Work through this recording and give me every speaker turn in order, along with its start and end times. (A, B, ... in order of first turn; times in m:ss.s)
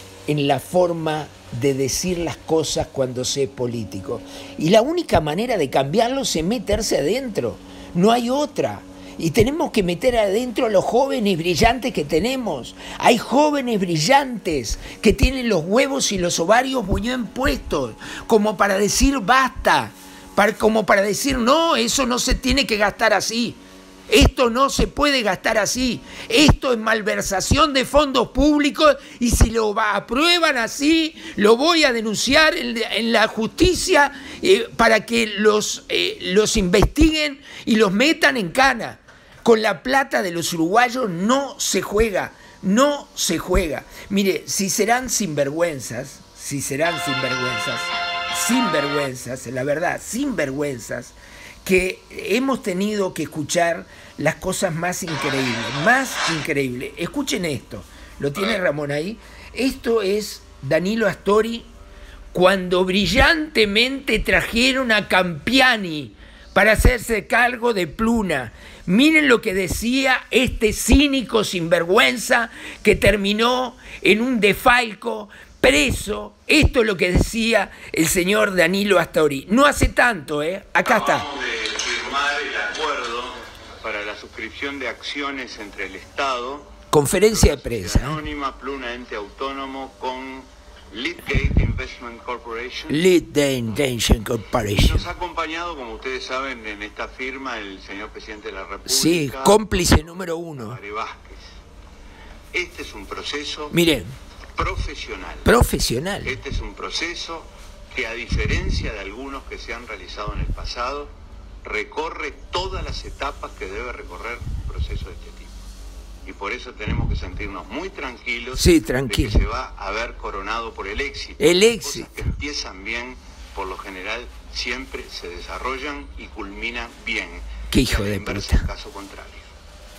0:00.3-1:01.7 A
1:02.3-1:21.3 A
1:20.8-1:26.7 B
1:26.9-1:28.2 A
1:27.2-1:33.0 B
1:32.9-1:35.1 A
1:34.7-1:41.4 B
1:38.8-1:40.8 A
1:42.5-1:43.7 B
1:43.7-1:44.1 A
1:44.6-1:45.5 B
1:45.4-1:46.3 A
1:46.2-1:51.1 B
1:51.6-1:55.5 B
1:56.2-2:09.5 B
1:58.5-1:59.4 A
2:01.4-2:02.1 A
2:07.7-2:08.6 A